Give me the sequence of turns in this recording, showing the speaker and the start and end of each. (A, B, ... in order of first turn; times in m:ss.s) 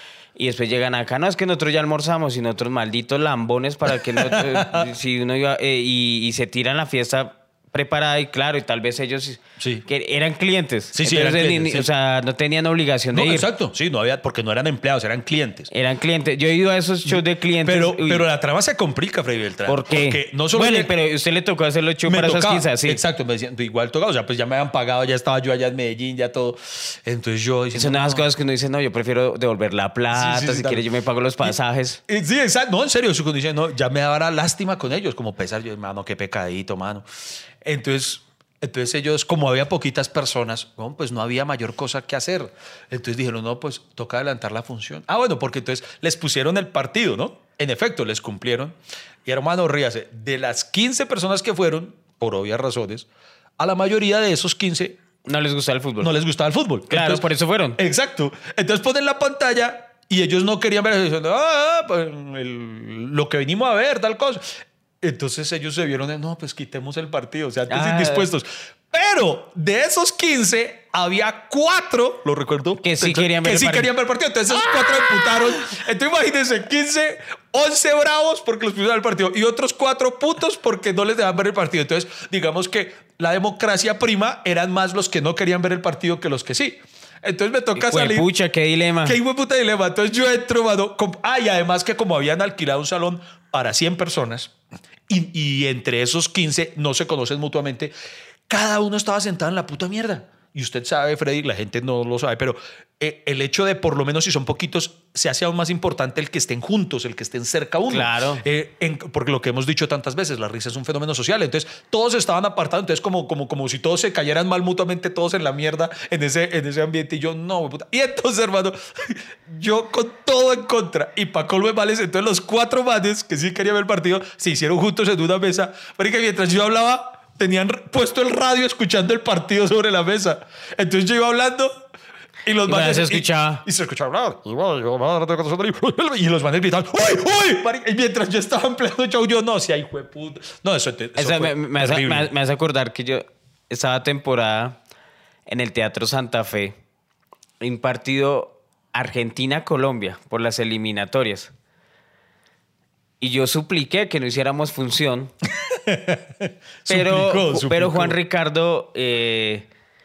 0:00.4-0:13.5 A
0:04.1-0:04.9 B
0:09.6-0:09.8 B
0:10.9-0:11.9 B
0:13.1-0:15.7 B
0:15.7-0:18.2 A
0:17.1-0:20.9 B
0:19.7-0:23.0 A
0:22.1-0:28.3 B
0:27.7-0:32.0 A
0:30.1-0:30.8 B
0:32.1-0:37.0 B
0:37.6-0:53.1 B
0:53.6-0:55.0 B
0:55.2-0:56.1 A
0:56.0-0:57.2 B
0:56.9-0:57.8 A
0:57.8-1:28.3 B
1:07.7-1:08.3 A
1:12.8-1:13.9 A
1:27.8-1:29.2 A
1:29.0-1:34.5 B
1:35.1-1:37.9 B
1:38.5-2:11.7 B
1:47.9-1:48.4 A
2:12.4-2:22.3 B
2:12.7-2:13.6 A
2:21.2-2:24.8 A
2:25.5-2:26.7 A
2:27.6-2:31.5 A
2:33.2-2:35.3 A
2:35.6-2:38.2 B
2:36.9-2:39.7 A